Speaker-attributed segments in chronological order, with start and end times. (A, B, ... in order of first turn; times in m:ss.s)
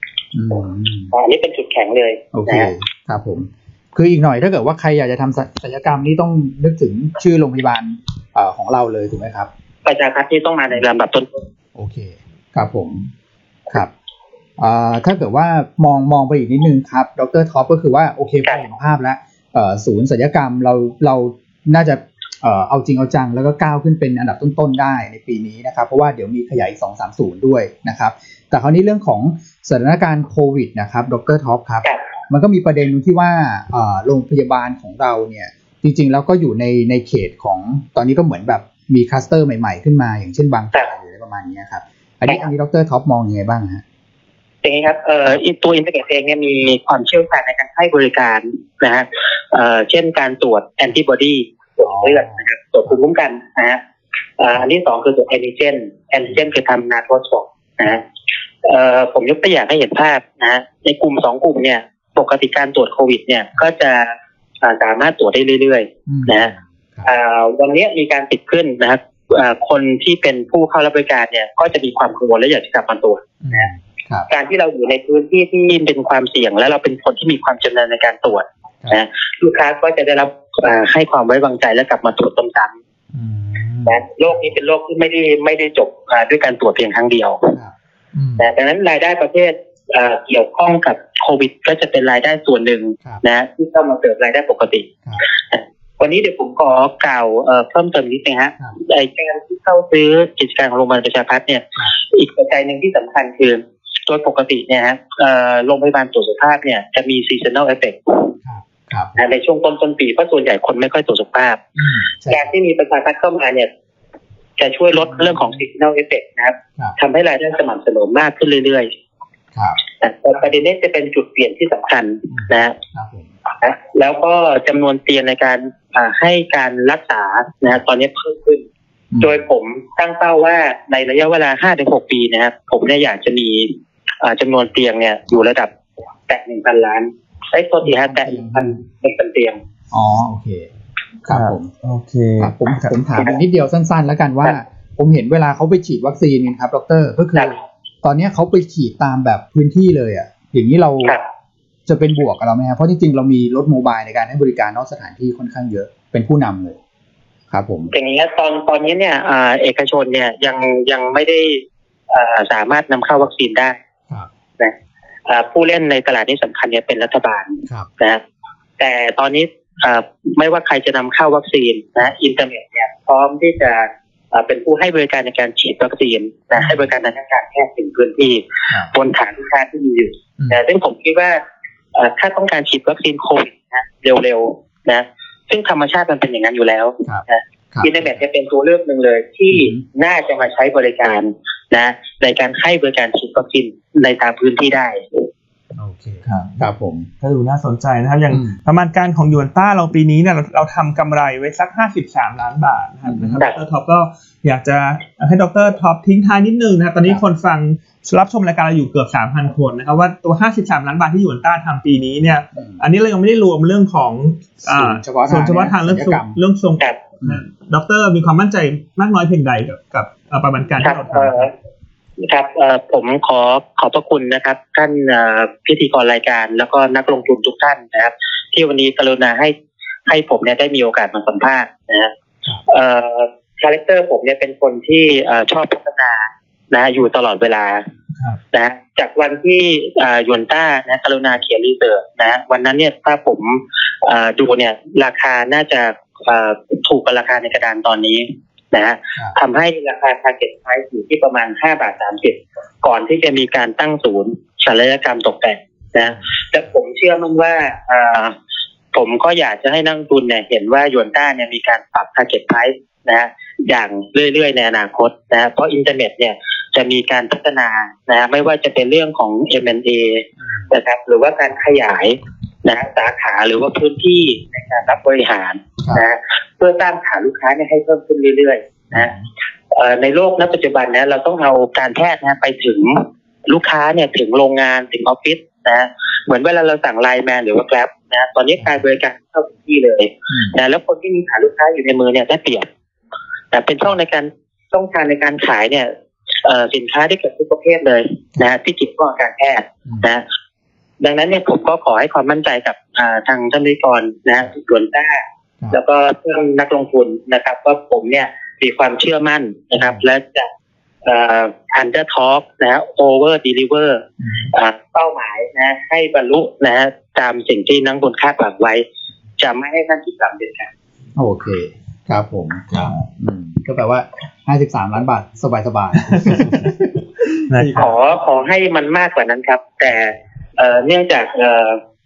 0:00.3-0:01.1 A
0:01.1-0:02.7 B
0:02.3-0:09.5 A
0:09.8-0:11.4 B
0:11.8-0:13.1 A
0:14.6-0:43.8 A
0:44.6-0:53.8 B
0:51.8-0:53.0 A
0:54.4-0:58.0 B
0:58.6-1:06.5 B
1:06.1-1:07.1 A
1:07.0-1:13.7 B
1:13.4-1:14.3 A
1:14.3-1:22.7 B
1:23.1-1:24.5 A
1:23.9-1:27.5 B
1:27.5-1:28.5 A
1:28.4-1:48.3 B
1:48.4-1:49.2 A
1:49.2-1:51.6 B
1:51.8-1:52.5 A
1:52.3-1:53.7 B
1:54.6-1:58.9 B
1:55.0-1:55.6 A
1:59.5-1:59.8 A
2:00.0-2:02.8 B
2:02.3-2:03.3 A
2:03.6-2:08.6 B
2:09.1-2:09.4 A
2:09.2-2:15.7 B
2:16.3-2:19.6 B
2:17.9-2:18.8 A
2:19.9-2:20.7 A
2:21.3-2:21.7 A
2:21.3-2:22.9 C
2:22.4-2:31.2 A
2:31.9-2:36.8 A
2:37.5-2:37.9 A
2:37.9-2:43.8 B
2:45.3-2:48.2 B
2:48.8-3:01.4 B
2:56.6-2:56.8 A
3:02.0-3:15.0 B
3:07.0-3:08.2 A
3:09.5-3:09.8 A
3:15.8-3:17.1 A
3:16.2-3:16.6 C
3:17.2-3:41.5 C
3:18.3-3:18.6 A
3:23.1-3:23.4 A
3:34.7-3:36.4 A
3:40.8-3:41.5 B
3:42.2-3:49.5 B
3:50.1-3:52.1 B
3:52.7-3:57.8 B
3:58.5-4:18.4 B
4:18.9-4:39.1 B
4:38.9-4:39.3 A
4:39.7-4:52.7 B
4:50.3-4:50.6 A
4:53.5-4:55.9 B
4:56.4-5:00.2 B
5:01.0-5:10.5 B
5:09.8-5:10.0 A
5:11.0-5:18.8 B
5:14.2-5:14.5 A
5:19.4-5:20.7 B
5:21.2-5:28.0 A
5:26.1-5:26.7 C
5:27.5-5:28.0 C
5:27.8-5:31.8 B